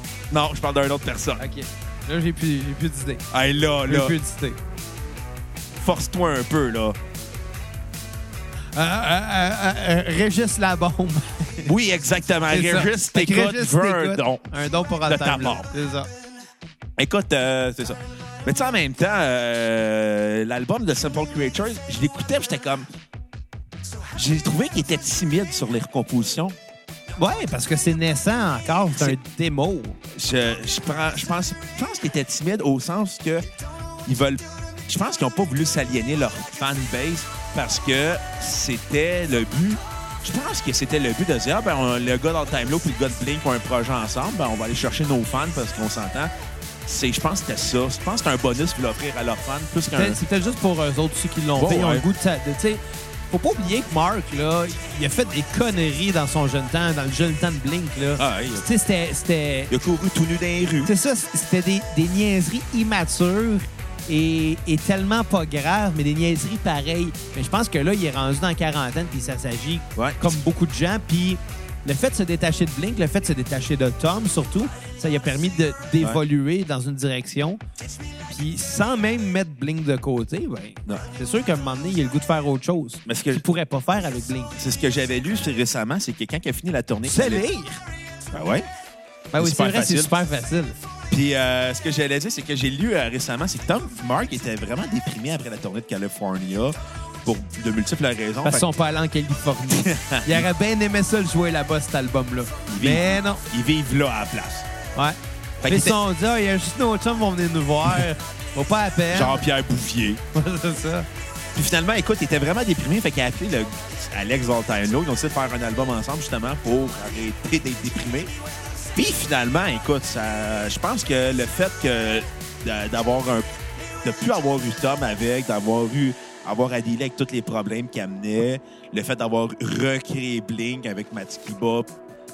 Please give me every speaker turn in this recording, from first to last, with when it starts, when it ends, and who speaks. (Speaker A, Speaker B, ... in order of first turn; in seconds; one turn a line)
Speaker A: 0.3-1.4
Speaker B: 1.4-3.2
Speaker A: 3.3-4.2
Speaker B: 3.9-4.6
Speaker A: 5.8-7.0
Speaker B: 8.7-11.7
Speaker A: 11.6-14.4
Speaker B: 12.5-16.1
Speaker A: 15.1-15.7
Speaker A: 17.0-22.8
Speaker A: 24.1-26.5
Speaker B: 27.2-30.0
Speaker A: 30.1-33.4
Speaker A: 34.0-46.3
Speaker A: 46.9-50.2
Speaker B: 50.0-59.7
Speaker A: 51.6-52.0
Speaker A: 58.2-58.6
Speaker A: 59.7-60.9
Speaker B: 60.9-77.6
Speaker A: 70.0-70.3
Speaker B: 78.3-84.5
Speaker A: 83.0-83.4
Speaker A: 84.6-87.5
Speaker B: 87.1-87.8
Speaker A: 88.3-88.7
Speaker B: 89.3-90.7
Speaker A: 89.4-90.1
Speaker A: 91.1-98.6
Speaker B: 98.4-103.4
Speaker A: 99.8-100.4
Speaker A: 102.7-104.7
Speaker B: 104.9-109.5
Speaker A: 105.6-106.0
Speaker A: 109.1-110.2
Speaker B: 110.3-111.1
Speaker A: 111.5-118.3
Speaker A: 119.0-123.5
Speaker A: 124.0-131.9